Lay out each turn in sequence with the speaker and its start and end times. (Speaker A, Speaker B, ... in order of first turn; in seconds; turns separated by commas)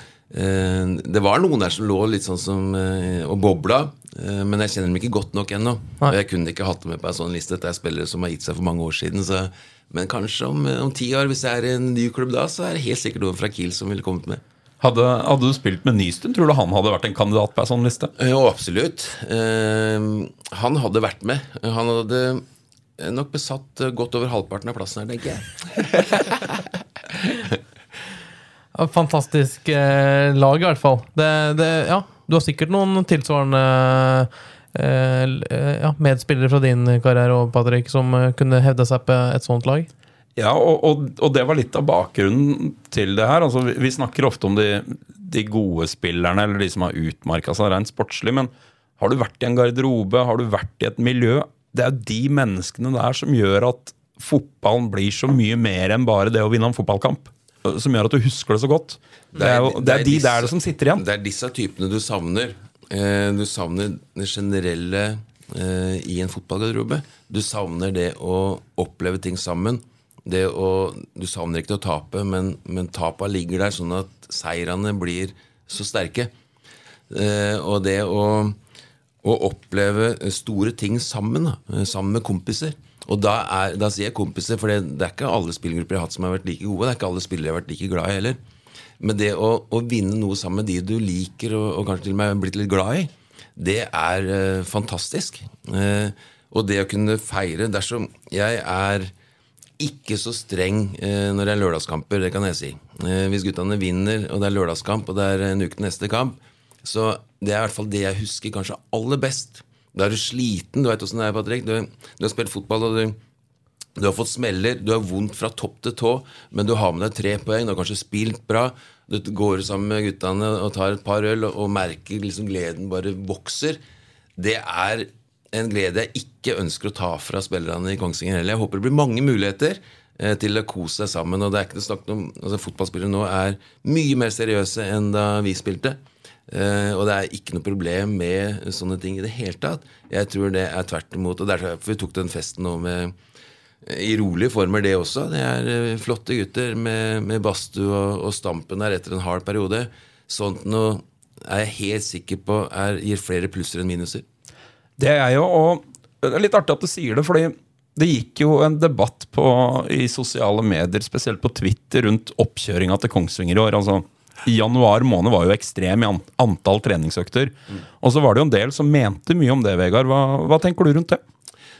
Speaker A: 0.3-14.4, Speaker B: 14.8-18.1, Speaker A: 18.1-22.4, Speaker A: 23.0-26.6, Speaker A: 27.2-27.6, Speaker C: 28.7-39.9, Speaker B: 40.4-61.0, Speaker A: 59.3-76.3, Speaker A: 77.1-78.6, Speaker A: 79.2-88.4, Speaker A: 89.0-99.1, Speaker A: 99.8-113.2, Speaker A: 114.0-123.8, Speaker A: 124.4-143.2, Speaker A: 143.8-154.2, Speaker B: 155.0-171.2